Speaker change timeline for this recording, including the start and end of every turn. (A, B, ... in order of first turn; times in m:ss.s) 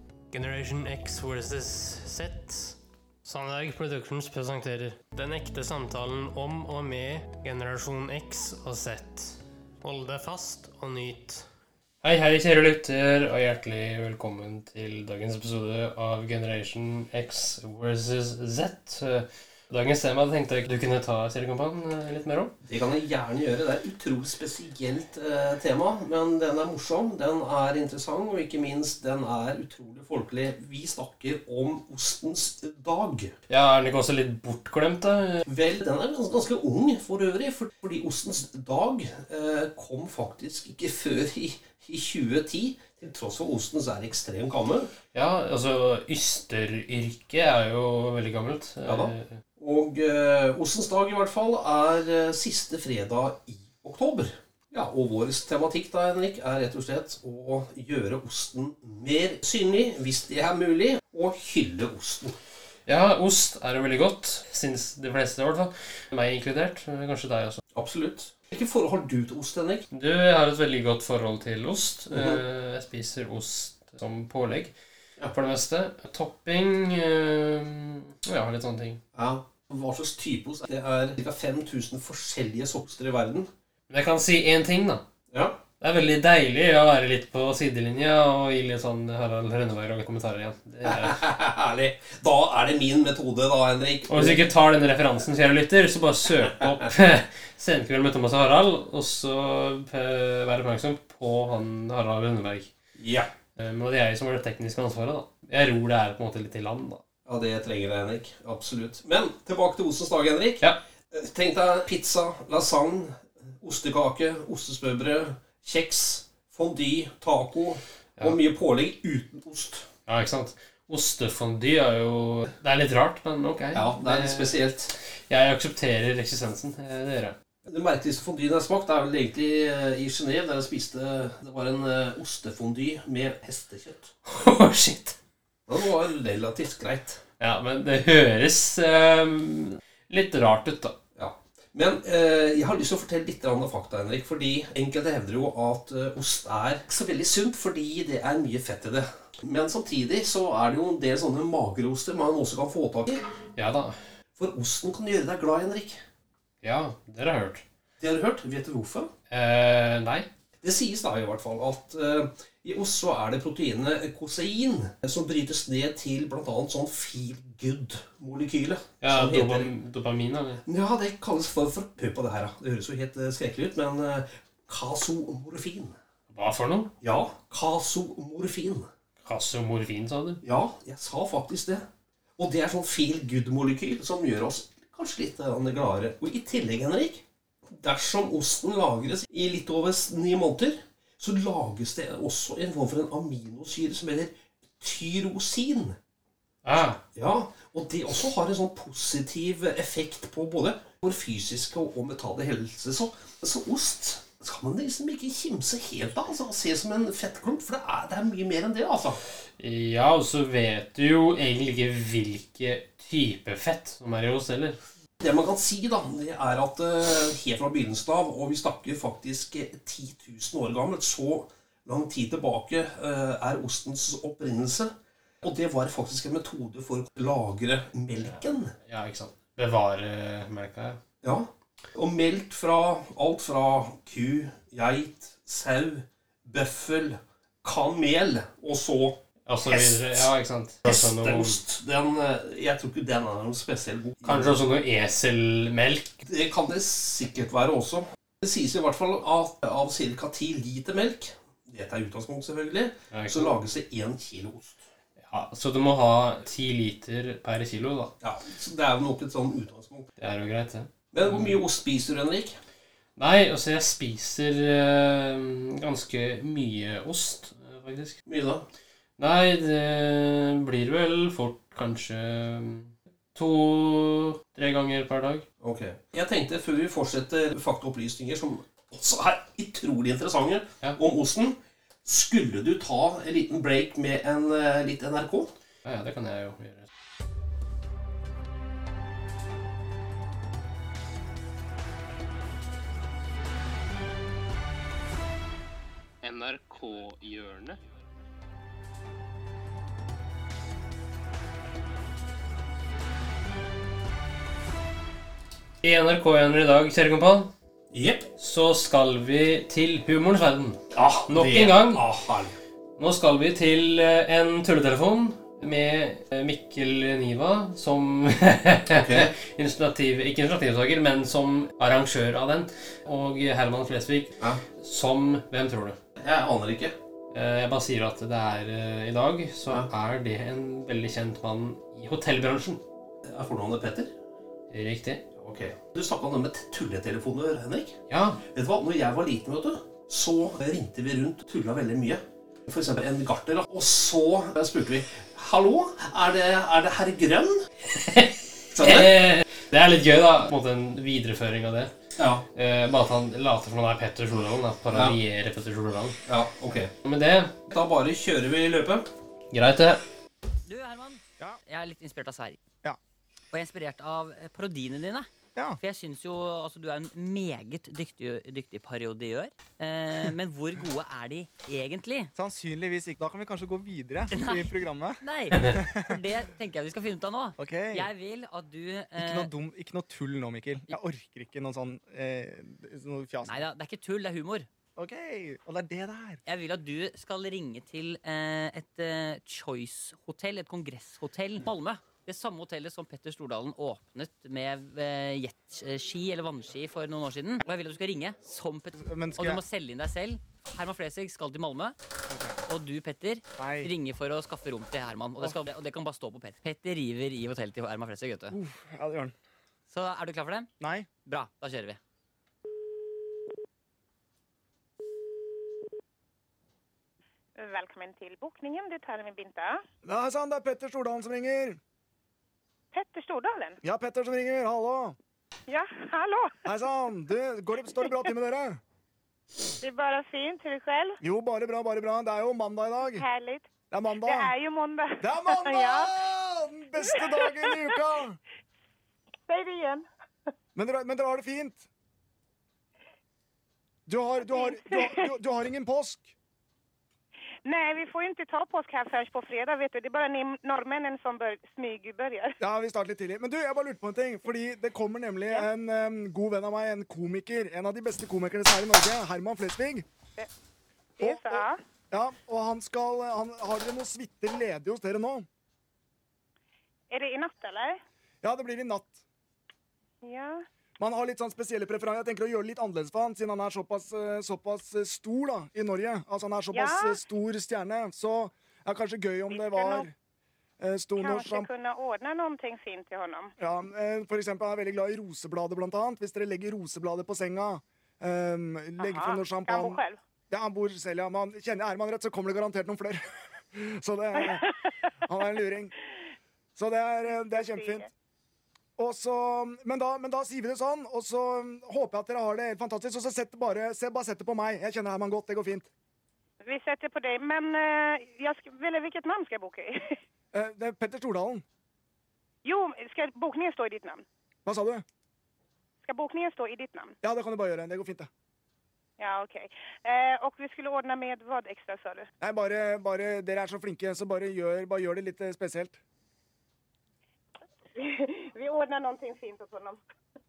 0:00.3-0:11.4 A
0:12.0-0:22.5 A
0:22.6-0:33.3 B
0:33.5-0:35.4 A
0:35.4-0:44.9 B
0:45.1-0:49.4 A
0:48.8-1:02.4 B
1:02.9-1:07.6 A
1:07.7-1:09.8 B
1:09.9-1:14.7 A
1:12.1-1:12.4 B
1:15.3-1:19.0 A
1:19.1-1:23.5 B
1:23.9-1:25.0 A
1:25.3-1:25.6 B
1:25.8-1:31.2 A
1:30.8-1:34.5 B
1:34.1-1:42.7 A
1:43.0-1:43.3 B
1:43.6-1:47.0 A
1:47.2-1:59.9 B
2:00.0-2:04.5 A
2:03.7-2:04.9 B
2:05.3-2:07.3 A
2:07.6-2:14.1 B
2:14.2-2:15.2 A
2:15.7-2:17.2 B
2:17.4-2:21.0 A
2:21.2-2:33.2 B
2:33.6-2:34.0 A
2:34.4-2:36.0 B
2:36.6-2:37.6 A
2:38.0-2:39.1 B
2:39.3-2:40.3 A
2:40.6-2:49.7 B
2:49.0-2:50.6 A
2:50.6-2:56.0 B
2:56.3-2:56.9 A
2:57.0-2:58.9 B
2:59.2-3:00.4 A
3:00.4-3:01.8 B
3:02.4-3:16.0 B
3:16.6-3:17.0 A
3:17.1-3:29.2 B
3:29.6-3:34.8 A
3:35.2-3:48.7 B
3:48.2-3:51.0 A
3:51.2-4:00.3 B
3:59.4-4:01.6 A
4:00.8-4:04.5 B
4:04.2-4:06.2 A
4:06.2-4:14.8 B
4:13.1-4:13.5 A
4:15.2-4:18.1 A
4:18.2-4:20.1 B
4:20.2-4:21.6 A
4:21.1-4:22.6 B
4:23.2-4:28.2 A
4:28.2-4:28.6 B
4:29.2-4:35.4 A
4:35.6-4:45.5 B
4:45.8-4:46.9 A
4:56.2-4:57.8 A
5:05.8-5:07.5 A
5:07.9-5:08.2 B
5:08.4-5:12.0 A
5:10.9-5:12.5 B
5:13.0-5:26.0 A
5:18.9-5:19.3 B
5:26.2-5:26.9 B
5:27.3-5:32.8 A
5:33.2-5:34.1 B
5:34.7-5:35.2 A
5:35.4-5:47.6 B
5:38.1-5:38.4 A
5:48.0-5:51.9 A
5:48.7-5:49.3 B
5:52.2-5:52.4 B
5:52.5-5:56.2 A
5:56.2-5:56.9 B
5:57.0-5:57.6 A
5:57.7-5:59.0 B
5:59.5-6:00.0 A
6:00.6-6:02.6 C
6:03.5-6:05.3 C
6:05.8-6:12.3 C
6:12.4-6:16.2 D
6:14.3-6:19.5 C
6:17.6-6:18.1 D
6:19.2-6:23.6 D
6:23.4-6:24.7 C
6:25.0-6:26.4 D
6:26.4-6:41.9 C
6:39.0-6:39.6 D
6:42.3-6:42.6 D
6:42.7-6:48.6 C
6:43.6-6:43.9 D
6:48.5-6:49.3 D
6:49.9-6:50.7 C
6:50.8-6:51.1 D
6:51.2-6:52.0 C
6:57.6-6:59.8 E
7:00.0-7:01.8 D
7:02.9-7:03.8 E
7:03.8-7:05.2 D
7:05.7-7:06.6 E
7:06.6-7:08.8 D
7:09.8-7:11.2 E
7:11.2-7:13.2 D
7:13.1-7:13.7 E
7:13.9-7:14.5 D
7:14.2-7:16.2 E
7:15.2-7:18.4 D
7:17.0-7:18.0 E
7:19.5-7:20.0 E
7:20.7-7:21.9 D
7:24.1-7:26.3 D
7:24.4-7:25.3 E
7:27.6-7:32.5 E
7:32.6-7:40.0 D
7:41.2-7:41.8 E
7:41.2-7:45.5 D
7:47.1-7:48.0 E
7:48.4-7:49.2 D
7:50.2-7:50.6 E
7:51.0-8:00.1 D
7:56.7-7:57.2 E
7:59.5-8:00.1 E
8:00.8-8:01.7 D
8:01.2-8:03.5 E
8:03.6-8:13.2 D
8:09.0-8:10.2 E
8:13.7-8:14.7 D
8:15.2-8:15.9 D
8:16.8-8:18.1 D
8:17.4-8:18.1 E
8:19.0-8:25.9 D
8:26.6-8:30.2 E
8:30.5-8:31.6 D
8:32.6-8:34.2 E
8:34.6-8:35.0 D
8:36.0-8:37.2 E
8:37.2-8:38.3 D
8:39.2-8:42.3 E
8:42.4-8:46.0 D
8:48.0-8:50.0 E